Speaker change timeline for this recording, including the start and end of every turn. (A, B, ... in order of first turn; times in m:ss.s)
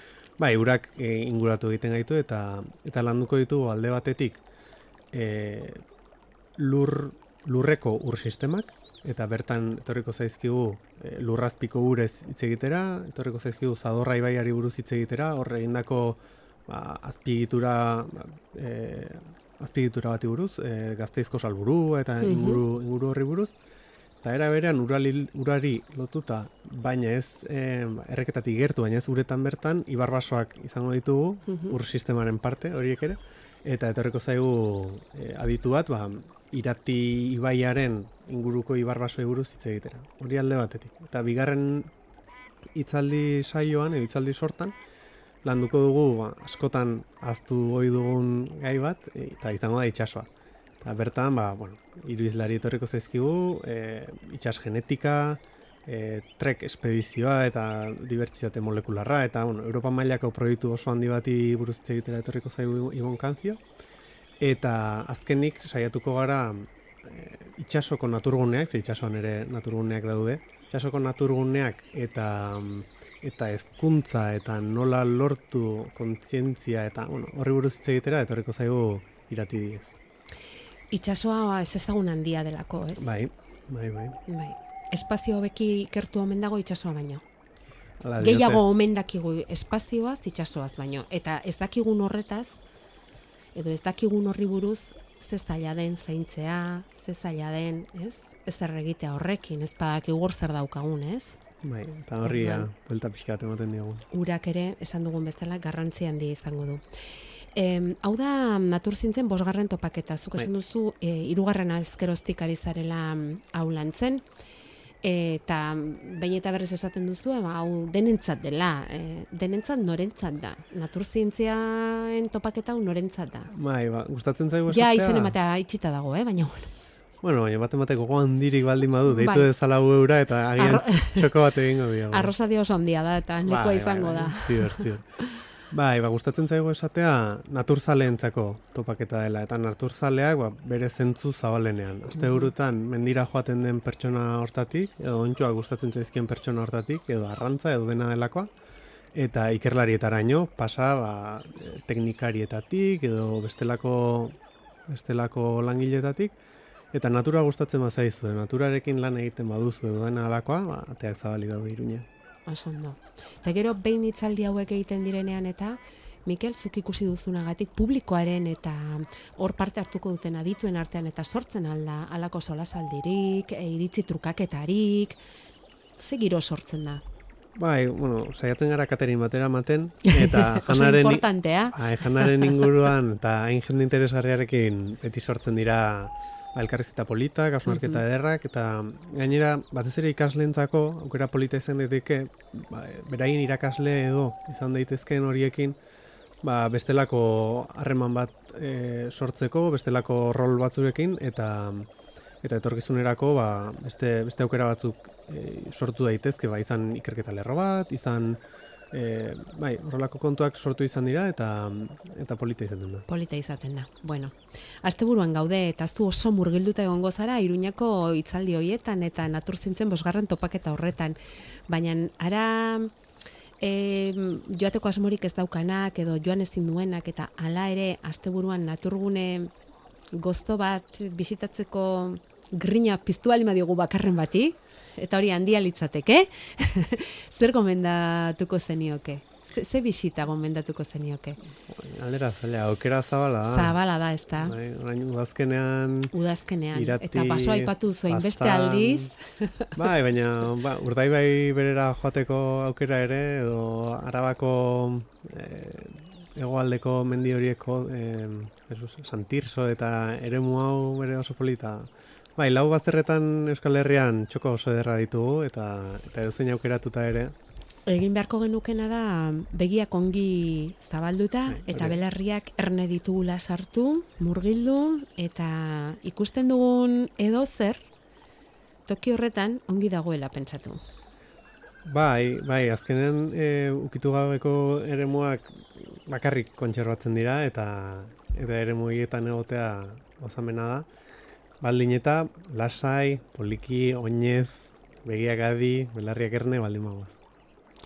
0:00.4-0:04.4 A
0:05.1-0:05.8 A
0:06.6-0:23.5 A
0:22.2-0:22.6 B
0:24.2-0:41.9 A
0:31.5-0:31.8 B
0:42.7-0:44.8 A
0:45.4-0:50.3 A
0:50.8-1:03.6 A
1:04.4-1:20.0 A
1:20.9-1:23.1 B
1:23.0-1:24.2 A
1:24.3-1:27.2 B
1:28.0-1:28.6 A
1:28.2-1:32.6 B
1:33.5-1:41.4 B
1:41.6-1:44.0 A
1:42.2-1:42.7 B
1:44.1-1:46.8 B
1:47.6-1:54.2 B
1:55.0-2:03.5 B
2:03.5-2:05.4 A
2:04.7-2:06.7 B
2:07.2-2:12.3 A
2:09.1-2:09.5 B
2:10.6-2:11.3 B
2:12.1-2:14.9 B
2:13.4-2:28.5 A
2:22.2-2:22.5 B
2:29.2-2:34.4 A
2:34.9-2:36.4 A
2:36.9-2:42.1 A
2:42.5-2:55.2 B
2:56.0-2:57.0 B
2:57.6-3:15.8 A
3:00.1-3:02.7 B
3:07.7-3:08.0 B
3:16.4-3:21.9 A
3:22.4-3:28.4 A
3:28.9-3:33.1 A
3:33.1-3:41.2 B
3:41.7-3:42.9 B
3:43.6-3:49.5 B
3:50.1-4:01.4 B
4:01.6-4:03.8 A
4:03.4-4:04.6 B
4:04.4-4:06.1 A
4:06.1-4:09.7 B
4:06.7-4:09.1 A
4:09.8-4:27.3 A
4:27.9-4:37.9 B
4:31.5-4:32.0 A
4:38.9-4:40.8 B
4:41.8-4:50.9 A
4:51.6-4:57.2 A